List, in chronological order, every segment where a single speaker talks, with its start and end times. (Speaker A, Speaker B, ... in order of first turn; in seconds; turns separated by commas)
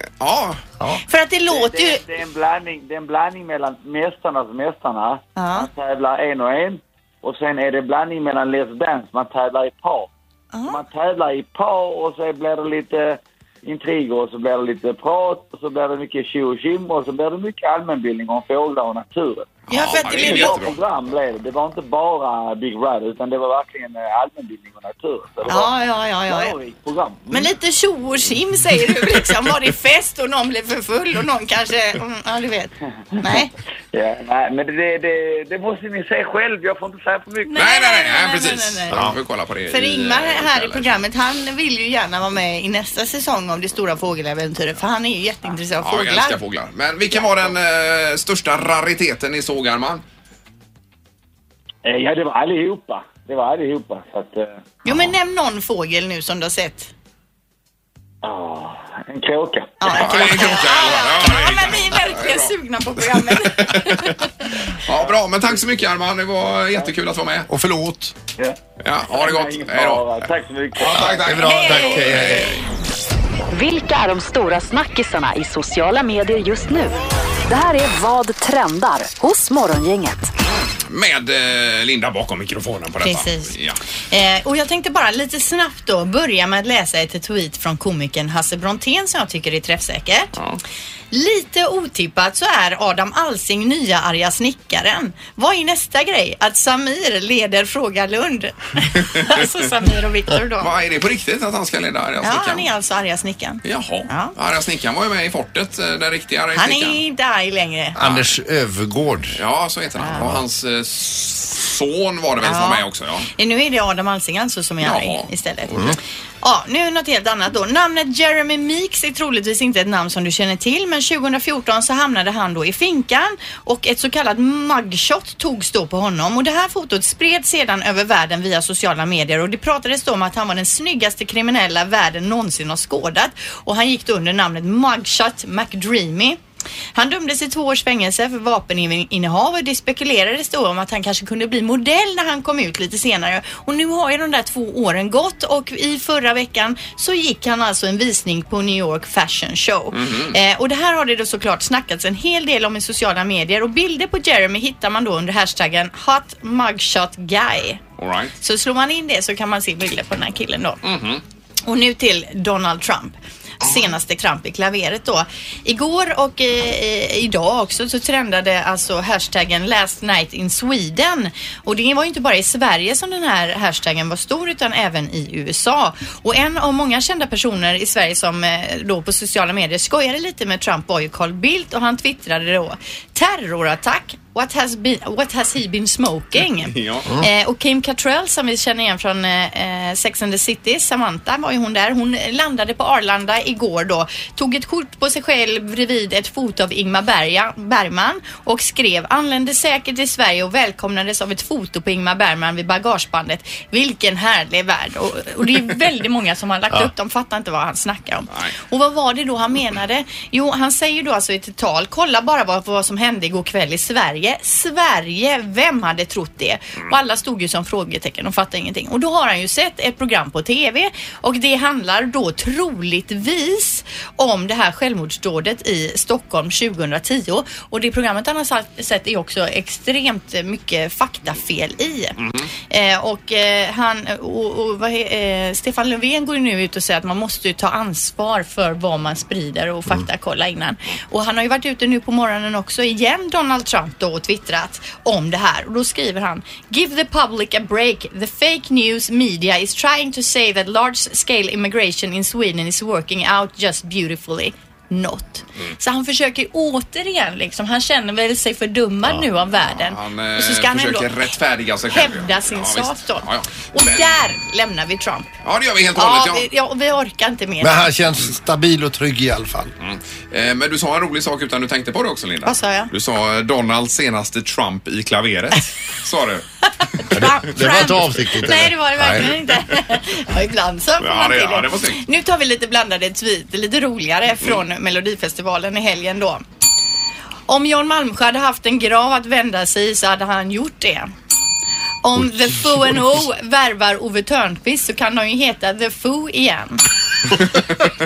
Speaker A: 0.2-0.6, Speaker B: 1.1-2.0, Speaker C: 1.5-10.1, Speaker B: 5.4-5.7, Speaker B: 10.5-10.8, Speaker C: 10.7-25.8, Speaker B: 19.7-20.6, Speaker A: 19.7-20.8, Speaker B: 25.5-26.5, Speaker C: 26.3-27.5, Speaker B: 27.3-33.5, Speaker C: 33.9-37.6, Speaker B: 37.5-39.0, Speaker A: 37.6-41.0, Speaker B: 39.7-46.4, Speaker A: 45.8-50.0, Speaker C: 51.9-54.6, Speaker B: 54.9-56.9, Speaker C: 58.2-60.0, Speaker B: 59.8-64.5, Speaker A: 59.9-67.5, Speaker D: 67.5-68.2, Speaker C: 68.4-71.3, Speaker A: 68.8-72.7, Speaker D: 70.8-72.6, Speaker B: 71.4-72.5, Speaker E: 73.5-80.3, Speaker A: 80.7-83.8, Speaker B: 83.0-83.6, Speaker B: 84.1-90.3, Speaker B: 91.1-100.7, Speaker A: 99.0-99.5, Speaker A: 100.6-102.7, Speaker B: 102.2-104.3, Speaker A: 103.6-107.0, Speaker B: 106.5-108.0, Speaker D: 108.0-109.4, Speaker A: 108.0-108.3, Speaker A: 109.4-113.3, Speaker B: 110.0-110.2, Speaker D: 110.1-110.4, Speaker B: 112.4-115.9, Speaker A: 114.8-116.0, Speaker B: 116.4-136.4, Speaker B: 136.9-157.8, Speaker A: 149.9-150.4, Speaker A: 158.0-158.3, Speaker B: 158.4-160.8, Speaker A: 160.8-161.2, Speaker B: 161.7-261.2, Speaker A: 186.7-187.1, Speaker A: 232.2-232.5, Speaker A: 259.8-264.1, Speaker B: 261.9-265.3, Speaker A: 265.4-266.5, Speaker B: 266.0-267.9, Speaker D: 267.6-269.7, Speaker A: 269.8-277.1, Speaker B: 272.4-272.9, Speaker B: 277.0-286.4, Speaker D: 277.1-279.3, Speaker A: 281.0-282.0, Speaker B: 287.5-291.1, Speaker B: 292.0-296.8